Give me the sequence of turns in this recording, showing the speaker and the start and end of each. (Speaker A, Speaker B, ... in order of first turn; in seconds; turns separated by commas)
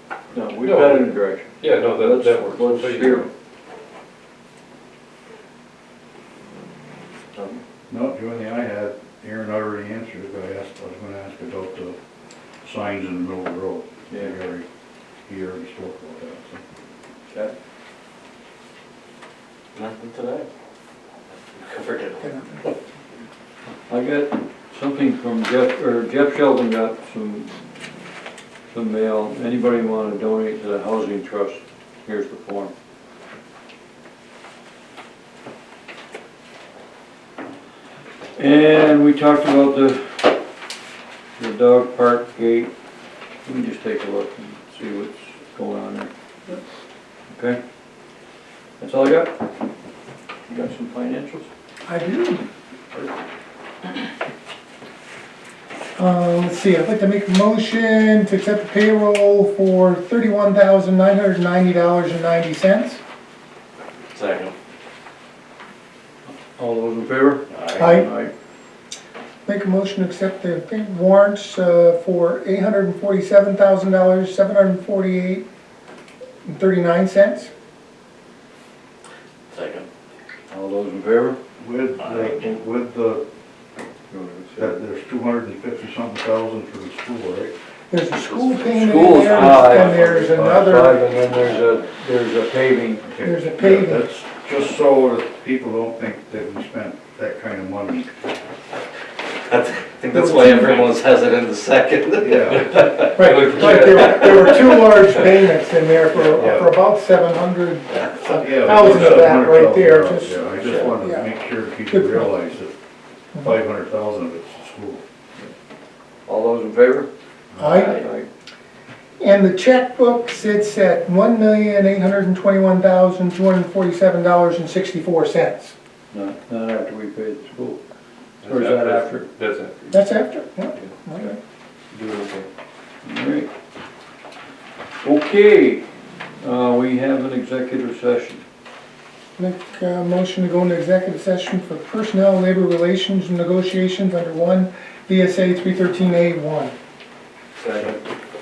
Speaker A: 0.3-3.3, Speaker B: 0.6-3.3, Speaker C: 7.9-12.0, Speaker C: 12.6-14.7, Speaker C: 15.3-16.6, Speaker A: 17.3-17.6, Speaker D: 19.7-20.5, Speaker D: 21.3-22.8, Speaker E: 22.2-22.5, Speaker A: 23.9-27.5, Speaker A: 28.7-32.7, Speaker A: 38.4-40.3, Speaker A: 41.4-42.7, Speaker A: 43.5-46.1, Speaker A: 47.3-47.6, Speaker A: 48.8-49.4, Speaker A: 50.5-51.5, Speaker E: 51.9-52.4, Speaker E: 56.0-63.0, Speaker D: 64.1-64.5, Speaker A: 66.5-68.3, Speaker D: 67.5-68.0, Speaker E: 67.8-68.1, Speaker E: 69.5-75.5, Speaker E: 76.5-77.5, Speaker D: 79.5-79.9, Speaker A: 80.5-81.4, Speaker C: 81.6-83.2, Speaker D: 82.0-82.3, Speaker A: 84.1-84.8, Speaker C: 84.6-87.5, Speaker E: 87.9-91.1, Speaker A: 88.7-93.1, Speaker D: 89.3-90.1, Speaker D: 91.2-91.7, Speaker C: 93.0-98.1, Speaker E: 93.2-94.1, Speaker D: 99.5-104.8, Speaker E: 100.1-100.9, Speaker C: 102.2-102.9, Speaker E: 103.2-112.3, Speaker B: 103.2-104.2, Speaker C: 106.3-106.8, Speaker D: 107.9-108.5, Speaker C: 108.4-112.8, Speaker B: 109.0-109.2, Speaker C: 113.4-115.0, Speaker A: 116.3-117.1, Speaker C: 117.5-117.9, Speaker E: 117.6-118.0, Speaker D: 117.7-118.1, Speaker A: 117.7-118.3, Speaker E: 119.2-125.7, Speaker A: 126.1-127.8, Speaker B: 128.4-131.2, Speaker A: 128.4-129.3, Speaker E: 129.9-131.4, Speaker B: 131.9-132.5, Speaker A: 133.1-133.5, Speaker A: 135.0-135.8, Speaker A: 136.4-138.4, Speaker E: 139.4-146.8, Speaker A: 147.6-148.0